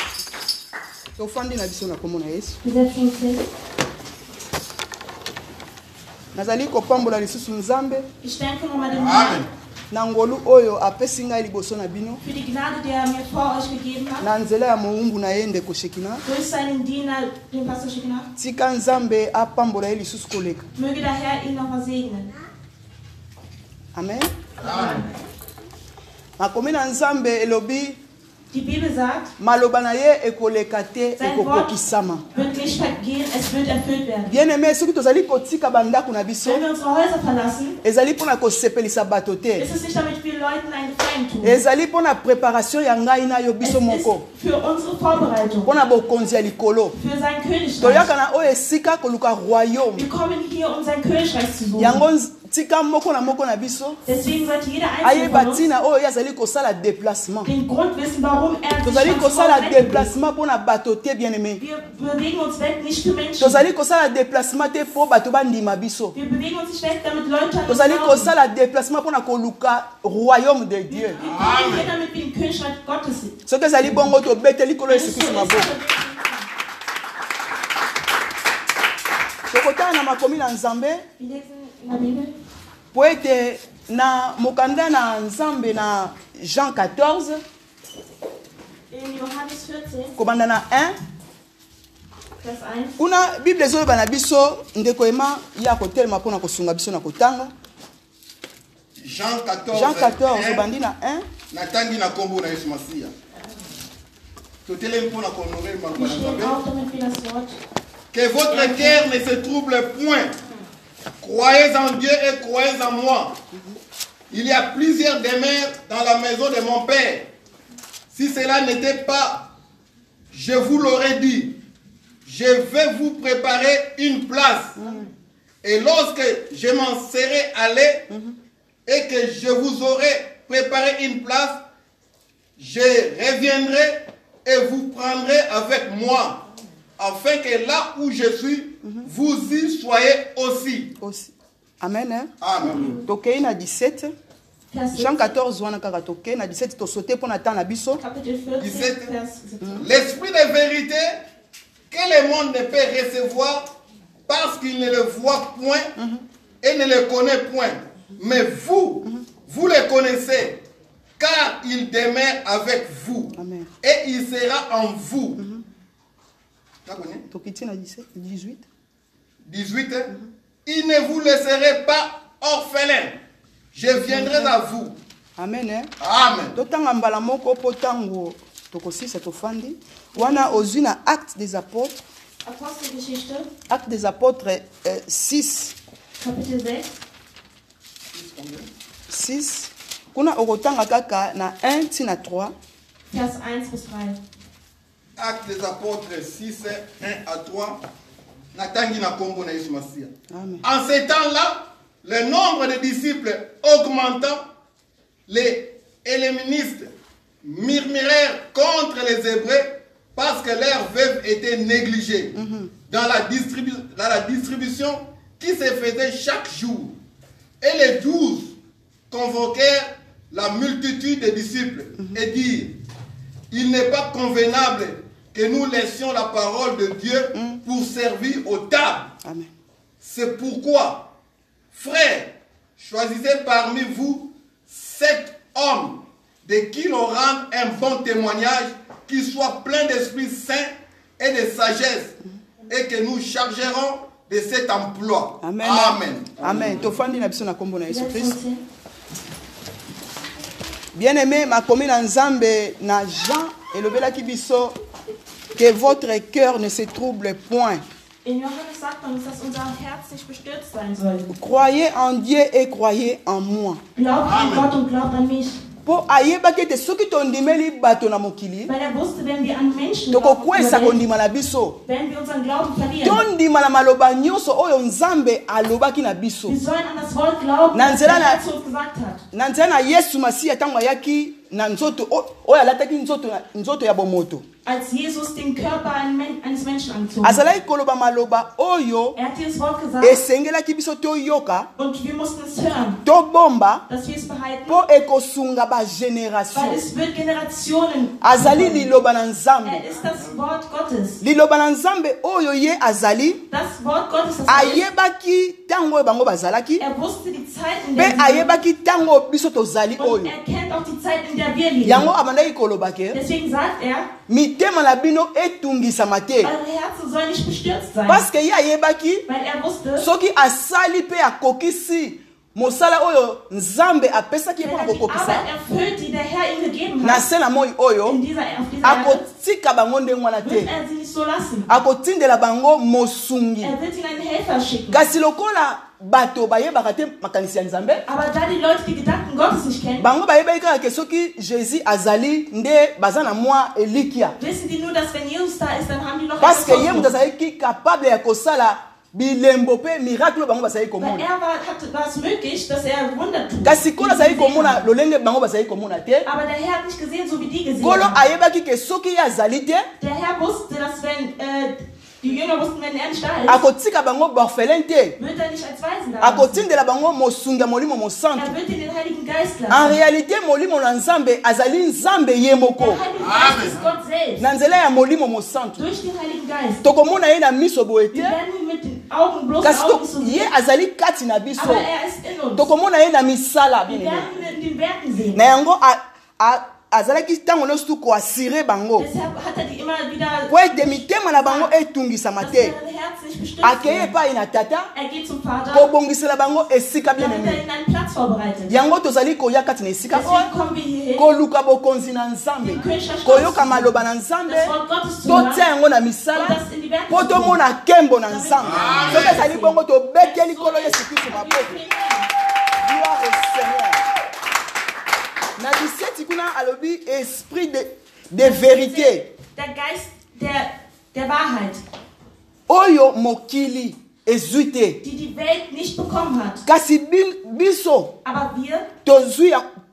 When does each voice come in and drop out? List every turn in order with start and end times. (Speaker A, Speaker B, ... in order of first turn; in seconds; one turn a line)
Speaker A: 1.2-2.6
Speaker B: 2.6-3.4
Speaker A: 6.3-8.1
Speaker B: 8.2-9.5
Speaker C: 9.0-9.5
Speaker A: 9.9-12.2
Speaker B: 12.2-14.3
Speaker A: 14.2-16.2
Speaker B: 16.2-18.3
Speaker A: 18.4-20.7
Speaker B: 20.8-22.3
Speaker A: 23.9-24.3
Speaker B: 24.6-25.1
Speaker C: 24.7-25.0
Speaker A: 26.4-28.0
Speaker B: 28.5-29.3
Speaker A: 29.4-32.2
Speaker B: 31.2-31.7
Speaker B: 32.3-34.4
Speaker A: 34.3-36.6
Speaker B: 36.4-37.8
Speaker A: 37.8-39.7
Speaker B: 39.6-41.6
Speaker A: 41.4-44.2
Speaker B: 43.6-45.7
Speaker A: 45.6-47.0
Speaker B: 46.9-48.1
Speaker A: 47.8-50.1
Speaker B: 50.0-52.0
Speaker A: 51.8-54.0
Speaker B: 54.0-55.6
Speaker A: 55.0-57.5
Speaker B: 57.4-60.1
Speaker A: 58.8-61.6
Speaker B: 61.6-63.6
Speaker A: 63.4-66.2
Speaker B: 66.1-68.3
Speaker A: 67.7-71.3
Speaker B: 70.9-73.3
Speaker C: 71.2-71.9
Speaker A: 73.5-75.7
Speaker B: 74.9-76.5
Speaker A: 79.5-81.0
Speaker B: 81.2-82.3
Speaker A: 82.9-87.4
Speaker B: 88.9-90.1
Speaker A: 90.2-91.0
Speaker B: 92.4-93.0
Speaker A: 93.0-97.5
Speaker C: 99.0-100.7
Speaker A: 99.7-101.3
Speaker C: 101.5-103.1
Speaker C: 104.7-106.6
Speaker B: 106.0-107.6
Speaker C: 108.1-110.3
Speaker B: 108.5-109.0
Speaker C: 111.2-113.4
Speaker C: 114.3-117.3
Speaker C: 118.1-119.5
Speaker C: 120.3-121.6
Speaker C: 122.2-124.8
Speaker A: 124.8-125.1
Speaker C: 125.6-128.1
Speaker A: 128.1-128.4
Speaker C: 128.9-131.6
Speaker C: 132.6-136.4
Speaker C: 137.0-140.9
Speaker A: 141.0-144.1
Speaker C: 142.4-143.0
Speaker B: 144.7-145.3
Speaker A: 144.9-148.0
Speaker B: 148.0-149.8
Speaker C: 148.6-149.2
Speaker C: 149.8-151.2
Speaker C: 151.9-153.7
Speaker C: 154.3-155.9
Speaker A: 156.0-156.2
Speaker C: 156.6-160.6
Speaker C: 161.2-165.4
Speaker A: 163.4-163.7
Speaker A: 165.4-165.6
Speaker C: 166.9-167.2
Speaker A: 167.3-168.6
Speaker C: 169.5-170.1
Speaker C: 170.7-173.2
Speaker C: 173.7-175.0
Speaker A: 174.0-174.5
Speaker A: 175.4-175.9
Speaker C: 176.0-176.6
Speaker A: 176.5-182.0
Speaker B: 180.2-180.6
Speaker B: 182.4-183.5
Speaker A: 183.7-185.8
Speaker B: 186.2-186.9
Speaker C: 188.1-188.7
Speaker A: 189.1-192.5
Speaker B: 193.1-194.2
Speaker C: 195.2-197.8
Speaker C: 198.5-200.1
Speaker A: 200.3-200.6
Speaker C: 200.6-204.5
Speaker C: 205.3-206.9
Speaker C: 207.4-212.4
Speaker A: 212.3-212.7
Speaker C: 212.9-216.9
Speaker C: 217.6-218.5
Speaker C: 219.1-222.7
Speaker C: 223.5-229.1
Speaker A: 227.3-227.6
Speaker A: 229.2-229.5
Speaker C: 230.0-231.1
Speaker C: 231.7-246.9
Speaker A: 245.4-248.4
Speaker B: 247.9-248.6
Speaker A: 250.9-254.8
Speaker A: 255.6-257.8
Speaker B: 258.2-261.3
Speaker A: 261.3-263.8
Speaker B: 264.0-265.6
Speaker C: 264.3-264.7
Speaker A: 265.9-268.7
Speaker B: 268.7-271.0
Speaker A: 270.1-271.8
Speaker B: 271.9-273.2
Speaker A: 273.0-276.6
Speaker B: 276.5-279.2
Speaker A: 277.7-278.4
Speaker A: 279.3-284.4
Speaker B: 284.6-287.4
Speaker A: 287.2-289.2
Speaker B: 289.2-290.2
Speaker A: 290.0-291.7
Speaker B: 291.8-293.0
Speaker A: 293.1-293.9
Speaker B: 293.9-294.8
Speaker A: 294.7-296.8
Speaker B: 296.5-298.9
Speaker A: 298.2-299.9
Speaker B: 299.6-301.2
Speaker A: 301.2-303.4
Speaker B: 303.5-304.8
Speaker A: 304.5-306.8
Speaker B: 306.8-308.6
Speaker A: 308.0-310.3
Speaker B: 310.0-312.1
Speaker A: 311.8-313.2
Speaker B: 313.1-314.1
Speaker A: 314.3-316.5
Speaker B: 316.4-318.2
Speaker A: 318.1-319.2
Speaker B: 319.3-320.1
Speaker A: 320.0-325.5
Speaker B: 324.6-327.2
Speaker A: 327.0-328.2
Speaker B: 328.1-329.2
Speaker A: 328.8-330.7
Speaker B: 330.4-331.7
Speaker A: 331.7-333.7
Speaker B: 333.6-335.0
Speaker A: 334.9-338.0
Speaker B: 338.1-340.1
Speaker A: 340.0-344.4
Speaker B: 344.4-347.1
Speaker A: 346.4-351.3
Speaker B: 351.0-354.9
Speaker A: 353.6-356.3
Speaker B: 356.2-358.3
Speaker A: 357.8-359.9
Speaker B: 360.0-363.6
Speaker A: 363.5-365.2
Speaker B: 365.2-366.6
Speaker A: 366.2-368.6
Speaker B: 368.4-370.0
Speaker A: 369.7-373.0
Speaker B: 372.8-374.4
Speaker C: 373.3-373.7
Speaker A: 374.4-375.8
Speaker B: 375.8-376.9
Speaker A: 376.8-378.4
Speaker B: 378.1-380.5
Speaker A: 379.6-381.9
Speaker B: 381.6-382.7
Speaker A: 382.6-384.3
Speaker B: 383.9-385.4
Speaker A: 385.3-389.1
Speaker B: 389.0-391.7
Speaker A: 390.5-392.8
Speaker B: 392.4-394.1
Speaker A: 393.6-394.9
Speaker B: 394.9-395.9
Speaker A: 395.7-397.6
Speaker B: 397.2-398.8
Speaker A: 398.7-400.5
Speaker B: 400.1-401.3
Speaker A: 401.2-404.8
Speaker B: 402.6-405.6
Speaker A: 405.3-411.8
Speaker B: 406.3-407.6
Speaker B: 408.3-412.3
Speaker C: 408.6-409.4
Speaker A: 412.8-414.0
Speaker A: 415.6-419.3
Speaker B: 418.4-421.8
Speaker A: 422.7-425.0
Speaker B: 425.0-426.6
Speaker A: 426.7-428.1
Speaker B: 428.2-428.9
Speaker A: 429.1-429.6